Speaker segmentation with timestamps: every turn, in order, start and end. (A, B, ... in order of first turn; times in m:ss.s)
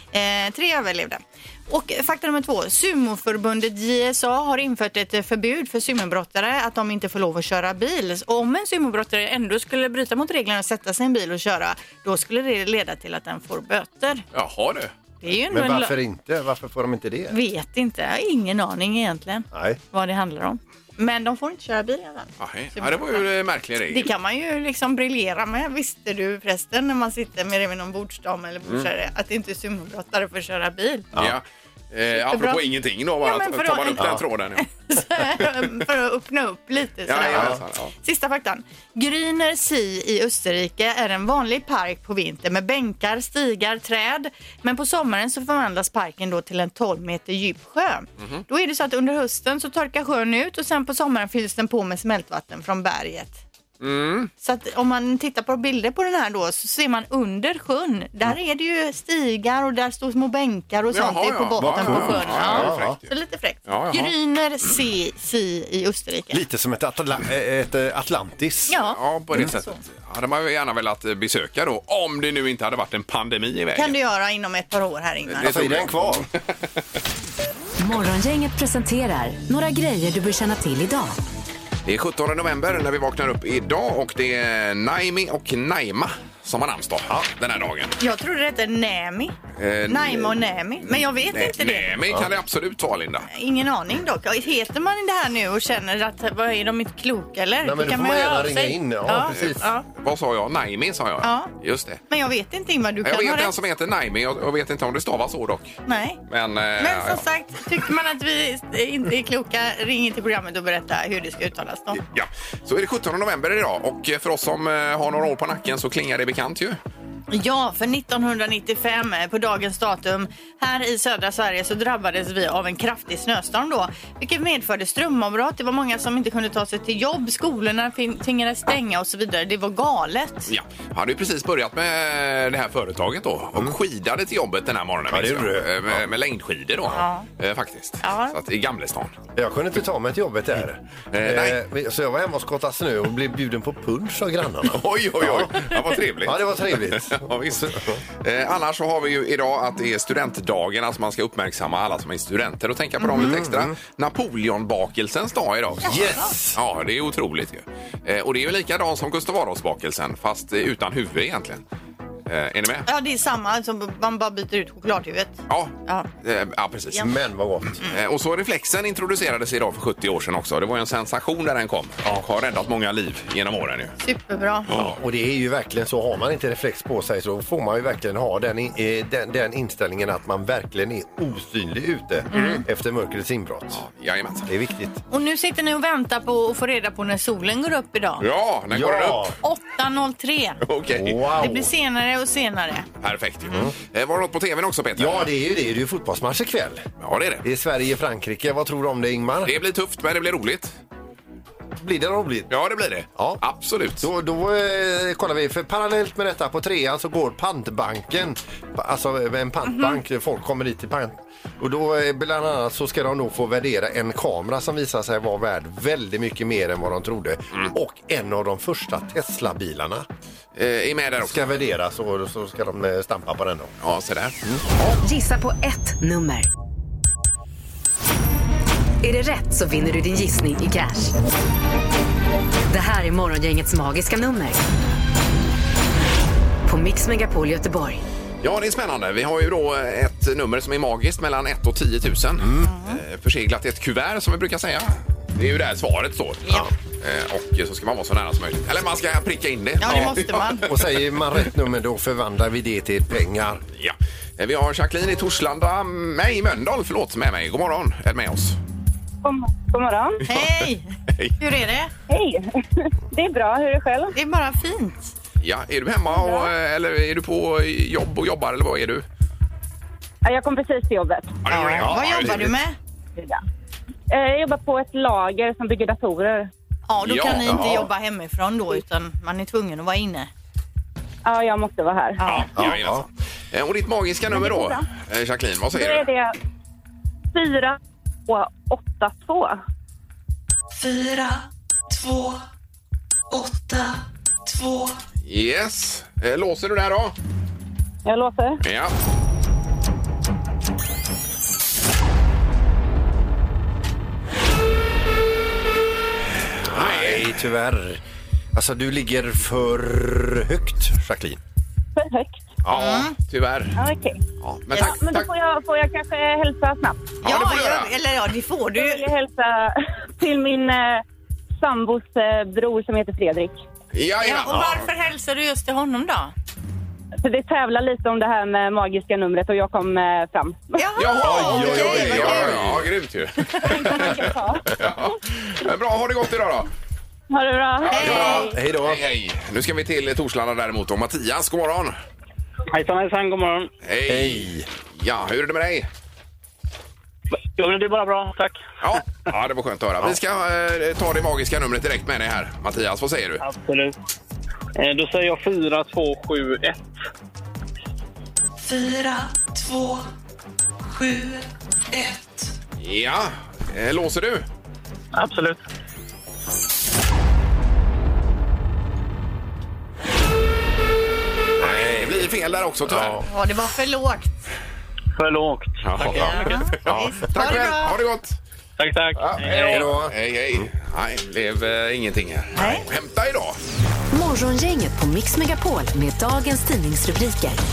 0:00.1-0:14.2 A
0:14.3-0:14.9 B
0:15.2-0:16.0 A
0:15.3-0:17.3 C
0:17.3-0:23.2 A
0:19.5-0:19.8 C
0:22.4-0:24.1 B
0:23.9-0:31.1 A
0:31.1-0:34.6 B
0:32.2-0:32.6 A
0:33.2-0:53.4 A
0:37.1-0:37.9 B
0:37.3-0:37.6 C
0:48.2-0:48.4 B
0:53.8-0:54.3 B
0:54.4-1:06.4 A
1:00.9-1:03.0 B
1:01.6-1:03.0 C
1:03.7-1:04.1 B
1:06.3-1:08.7 C
1:08.7-1:09.8 A
1:08.8-1:13.9 B
1:13.7-1:15.5 A
1:15.3-1:16.0 B
1:15.4-1:16.3 C
1:17.8-1:21.2 D
1:21.8-1:28.0 B
1:28.0-1:29.3 A
1:29.6-1:33.3 B
1:29.9-1:31.9 A
1:33.3-1:39.8 A
1:37.6-1:39.6 C
1:39.3-1:42.0 B
1:41.2-1:41.5 A
1:42.1-1:43.5 A
1:43.0-1:45.8 B
1:45.9-1:46.2 A
1:46.3-1:47.2 B
1:46.8-1:52.0 A
1:52.0-1:56.8 B
1:57.3-2:10.5 A
2:10.5-2:19.1 B
2:15.1-2:16.0 C
2:16.9-2:17.3 A
2:18.0-2:18.4 A
2:19.4-2:28.0 C
2:21.1-2:21.6 B
2:24.6-2:27.7 B
2:28.2-2:36.0 B
2:33.0-2:33.3 A
2:33.1-2:33.8 C
2:35.8-2:36.3 A
2:35.8-2:36.6 C
2:36.5-2:41.6 B
2:42.3-2:42.9 B
2:42.9-2:46.1 A
2:45.5-2:47.1 B
2:46.9-2:47.8 C
2:47.8-2:53.9 B
2:54.0-2:54.7 A
2:54.7-2:55.0 B
2:54.7-3:03.8 C
3:02.3-3:02.6 B
3:02.3-3:02.6 A
3:03.7-3:04.5 B
3:04.5-3:05.0 C
3:05.1-3:08.2 A
3:08.2-3:09.3 B
3:08.7-3:09.4 C
3:09.4-3:10.6 A
3:10.6-3:11.3 B
3:10.9-3:11.7 C
3:11.4-3:12.9 A
3:13.0-3:15.3 B
3:15.0-3:16.9 C
3:17.0-3:17.4 B
3:17.4-3:19.5 C
3:19.4-3:20.7 B
3:21.8-3:22.5 C
3:22.5-3:24.1 B
3:24.0-3:40.0 C
3:40.5-3:41.4 B
3:41.2-3:43.7 C
3:43.8-3:45.0 B
3:45.0-3:46.5 D
3:49.0-3:51.1 D
3:52.7-3:54.6 D
3:56.6-3:58.0 D
3:58.4-4:10.6 B
4:02.4-4:02.7 C
4:02.6-4:03.0 A
4:09.8-4:10.7 A
4:09.9-4:13.6 C
4:13.8-4:18.6 B
4:19.2-4:20.2 E
4:20.3-4:21.9 A
4:22.1-4:24.1 E
4:24.1-4:25.0 A
4:25.4-4:29.0 B
4:26.1-4:26.5 E
4:30.2-4:31.4 E
4:31.4-4:32.4 B
4:31.5-4:32.8 A
4:31.8-4:32.5 C
4:34.1-4:36.5 E
4:36.9-4:40.3 A
4:37.0-4:37.8 B
4:37.4-4:37.8 C
4:41.2-4:42.2 E
4:42.2-4:42.5 A
4:42.2-4:46.1 B
4:42.6-4:43.0 C
4:44.3-4:44.8 E
4:45.7-4:46.3 E
4:47.3-4:49.6 E
4:50.7-4:52.4 F
4:53.3-4:55.0 F
4:55.2-4:57.1 B
4:58.0-4:58.6 E
4:58.6-4:58.9 B
5:06.6-5:07.3 B
5:06.6-5:08.0 C
5:08.5-5:11.4 C
5:12.0-5:12.4 E
5:12.6-5:13.8 B
5:12.7-5:13.1 A
5:13.8-5:14.2 E
5:14.4-5:15.3 B
5:14.7-5:17.1 E
5:17.2-5:17.9 B
5:17.2-5:19.1 A
5:18.7-5:21.0 E
5:21.6-5:23.6 E
5:23.9-5:24.9 B
5:24.2-5:26.3 A
5:27.2-5:30.8 E
5:30.8-5:32.6 A
5:31.0-5:36.7 B
5:31.2-5:32.9 C
5:33.5-5:34.2 A
5:33.6-5:34.7 E
5:37.3-5:38.6 E
5:37.8-5:42.0 B
5:37.9-5:38.5 A
5:38.5-5:39.0 C
5:42.7-5:43.7 G
5:43.8-5:45.9 B
5:44.1-5:44.6 C
5:47.6-5:48.6 G
5:48.8-5:53.4 B
5:53.4-5:53.9 G
5:54.8-5:56.8 G
5:58.6-6:00.1 F
6:00.8-6:02.5 F
6:02.8-6:04.4 B
6:05.2-6:05.6 G
6:11.6-6:12.3 C
6:11.6-6:13.2 B
6:12.8-6:13.2 C
6:13.2-6:14.3 A
6:15.2-6:16.5 G
6:15.8-6:18.4 B
6:16.1-6:18.0 A
6:16.9-6:17.1 C
6:18.8-6:19.8 G
6:19.2-6:23.6 B
6:19.4-6:20.7 C
6:22.5-6:22.8 A
6:24.1-6:27.6 D